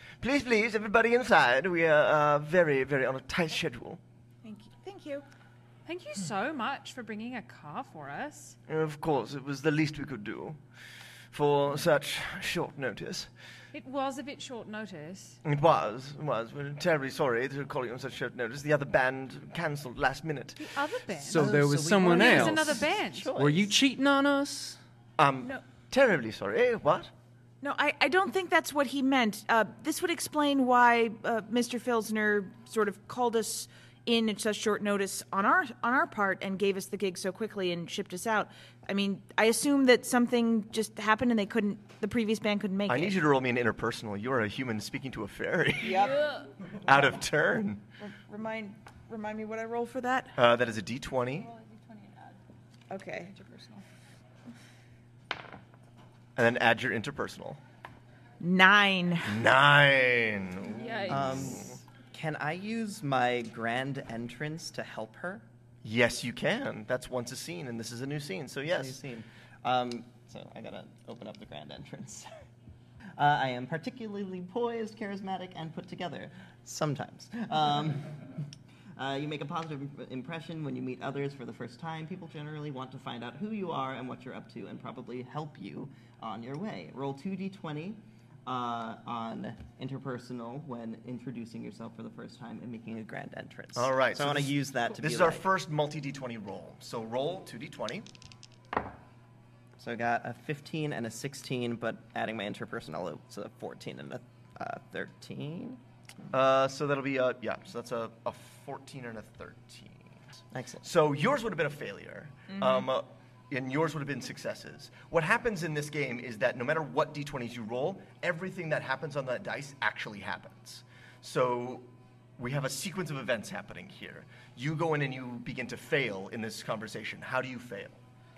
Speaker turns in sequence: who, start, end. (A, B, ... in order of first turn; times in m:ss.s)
0:00.2-0:04.0 A
0:04.4-0:05.2 B
0:05.9-0:08.6 C
0:08.7-0:10.6 A
0:11.3-0:13.3 A
0:13.7-0:15.4 C
0:15.4-0:20.6 A
0:20.6-0:23.3 C
0:21.2-0:24.8 D
0:21.3-0:23.7 E
0:25.2-0:27.1 A
0:27.6-0:43.2 B
0:42.9-0:46.1 A
0:45.8-0:46.4 B
0:46.1-0:46.4 C
0:46.8-0:47.8 A
0:48.0-0:50.4 B
0:50.4-0:51.5 A
0:51.6-0:52.3 C
0:52.9-0:53.4 B
0:53.3-0:53.8 C
0:56.4-0:57.6 A
0:58.4-0:59.4 B
0:59.2-1:01.7 A
1:00.7-1:01.8 C
1:01.1-1:05.4 E
1:05.8-1:09.0 A
1:08.7-1:12.3 E
1:13.2-1:18.4 E
1:19.0-1:35.5 E
1:33.8-1:38.1 A
1:39.8-1:45.8 E
1:46.3-1:50.2 A
1:50.5-1:50.8 E
1:50.8-2:01.9 A
1:52.6-1:52.8 B
2:02.4-2:08.0 A